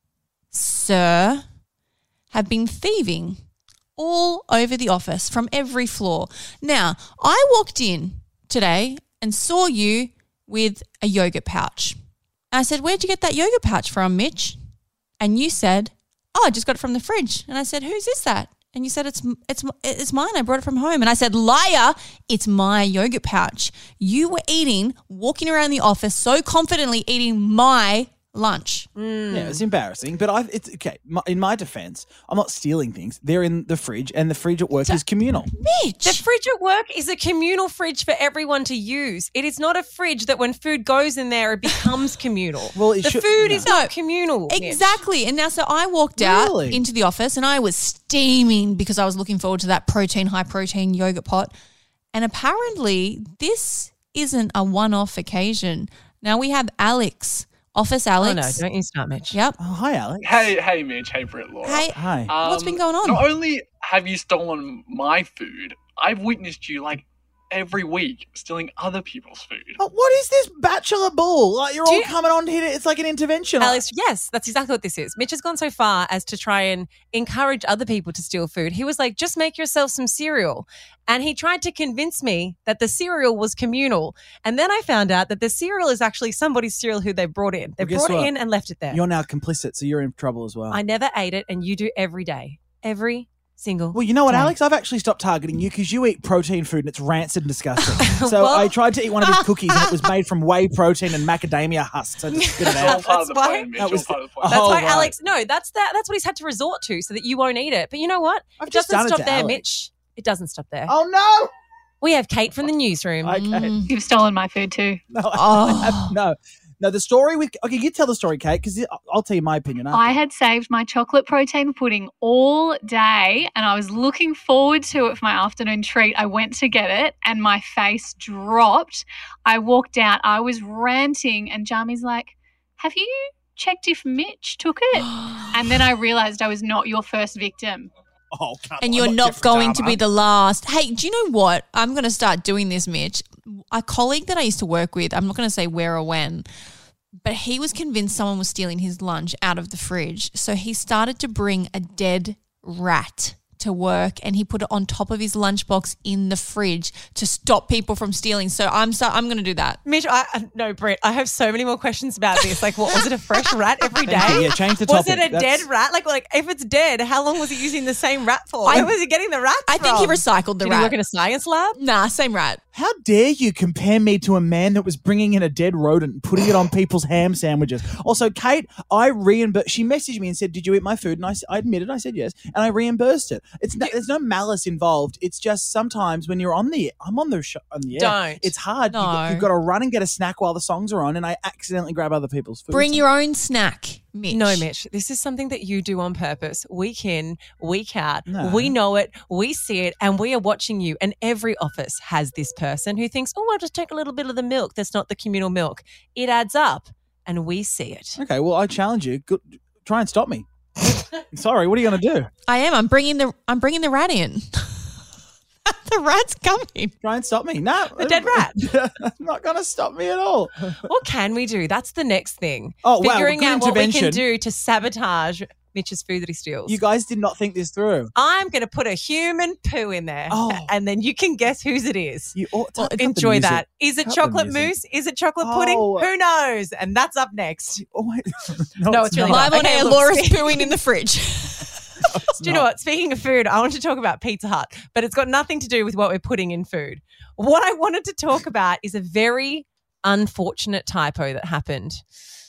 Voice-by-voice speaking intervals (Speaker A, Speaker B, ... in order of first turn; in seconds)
Speaker A: 0.5-1.4, 2.3-3.4, 4.0-12.0, 12.5-14.6, 15.2-28.9, 35.5-36.2, 43.6-43.9, 44.5-51.5, 52.1-58.6, 59.3-59.6, 61.6-63.3, 99.3-99.9, 113.4-113.9, 115.3-116.2, 134.9-135.7, 138.8-146.5, 147.2-159.8, 168.7-168.9, 169.7-170.9, 171.8-172.6, 188.9-189.5, 192.7-194.7, 212.5-214.9, 215.7-216.9, 239.2-242.0
Speaker B: 29.0-29.6, 36.0-45.0, 58.2-59.4, 71.8-72.1, 73.6-89.0, 90.7-94.5, 98.0-98.8, 102.3-103.8, 104.5-110.9, 112.0-113.4, 159.8-171.8, 187.9-188.5, 194.3-208.2, 217.9-218.6, 220.8-226.8, 228.2-237.8, 238.9-240.8, 242.4-252.0
Speaker C: 29.3-35.5, 42.8-43.7, 46.2-46.8, 59.6-60.5, 61.9-62.3, 69.8-73.8, 87.8-88.3, 88.9-90.8, 93.9-103.1, 103.8-105.2, 108.6-109.7, 110.9-111.5, 113.2-113.7, 115.1-120.2, 138.3-140.0, 164.1-165.7, 172.7-193.0, 198.3-198.8, 208.2-212.3, 217.0-220.8, 222.8-224.2, 226.7-228.1, 230.3-230.7, 232.3-234.8, 235.4-236.1, 237.8-239.6, 242.1-242.7
Speaker D: 60.2-69.8, 102.7-104.7
Speaker E: 113.9-115.0, 119.9-137.9